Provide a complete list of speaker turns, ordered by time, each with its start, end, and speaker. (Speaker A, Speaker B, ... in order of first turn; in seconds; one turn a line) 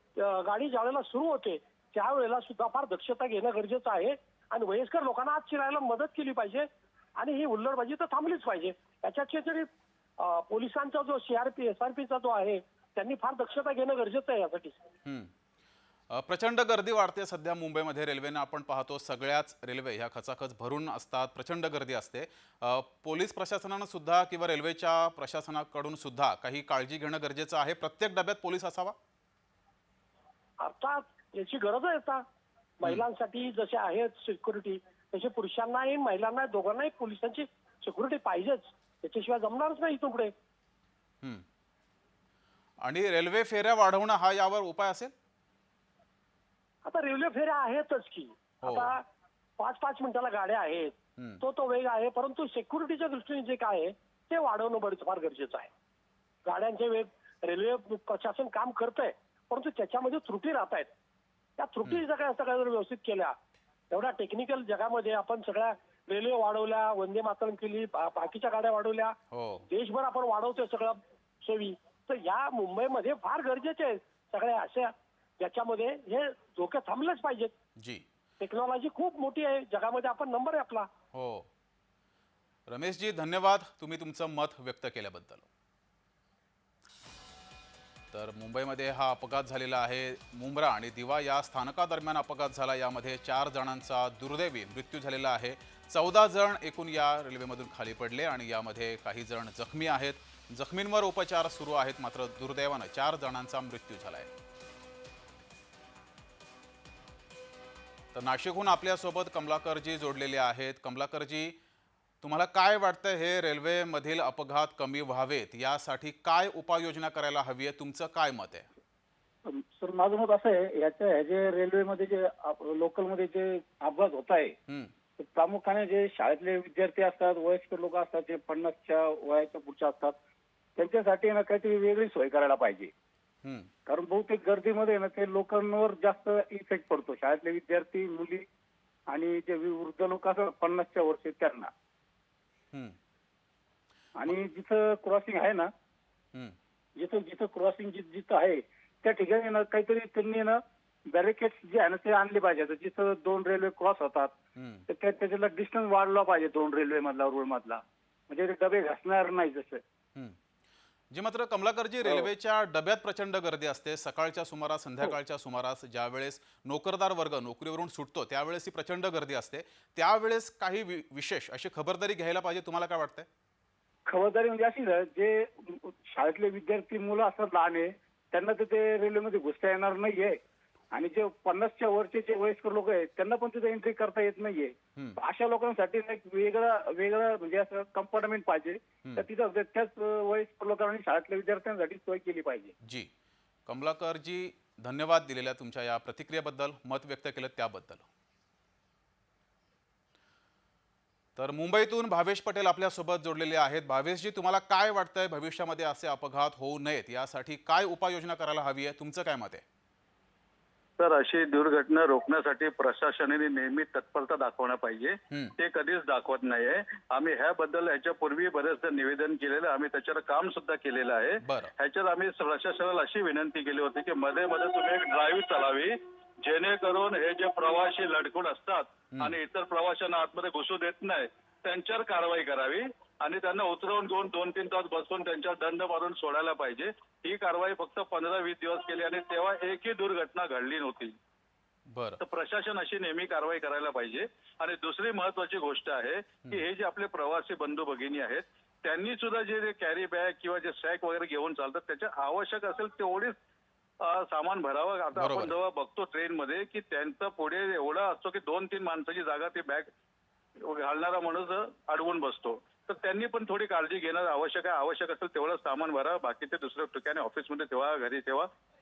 Speaker A: 0.2-9.7
Speaker A: 10.2-14.8
Speaker B: 15.1-15.3
Speaker B: 16.1-28.9
Speaker A: 30.6-32.2
Speaker A: 32.8-40.3
Speaker B: 42.8-45.1
Speaker A: 46.9-49.0
Speaker B: 48.6-49.0
Speaker A: 49.6-55.7
Speaker A: 56.5-60.9
Speaker A: 61.6-63.4
Speaker A: 63.9-69.2
Speaker B: 69.3-69.7
Speaker A: 69.7-77.5
Speaker A: 78.4-80.9
Speaker B: 81.1-81.5
Speaker B: 82.7-85.5
Speaker B: 88.1-104.3
Speaker B: 108.1-111.5
Speaker B: 112.2-118.7
Speaker C: 119.5-124.5
Speaker C: 125.2-130.2
Speaker C: 130.8-132.9
Speaker B: 133.4-133.7
Speaker C: 133.9-138.5
Speaker C: 139.1-141.7
Speaker C: 144.2-145.7
Speaker C: 147.0-150.6
Speaker C: 151.1-154.3
Speaker B: 154.6-154.8
Speaker C: 154.9-159.8
Speaker B: 161.1-173.3
Speaker C: 162.0-162.3
Speaker C: 174.1-180.4
Speaker C: 180.9-192.7
Speaker B: 192.8-193.1
Speaker B: 193.7-198.1
Speaker B: 201.4-209.6
Speaker D: 211.0-241.2
Speaker B: 221.4-221.7
Speaker B: 241.9-242.2
Speaker D: 242.2-253.3
Speaker D: 254.0-259.9
Speaker B: 255.2-255.6
Speaker D: 260.6-268.5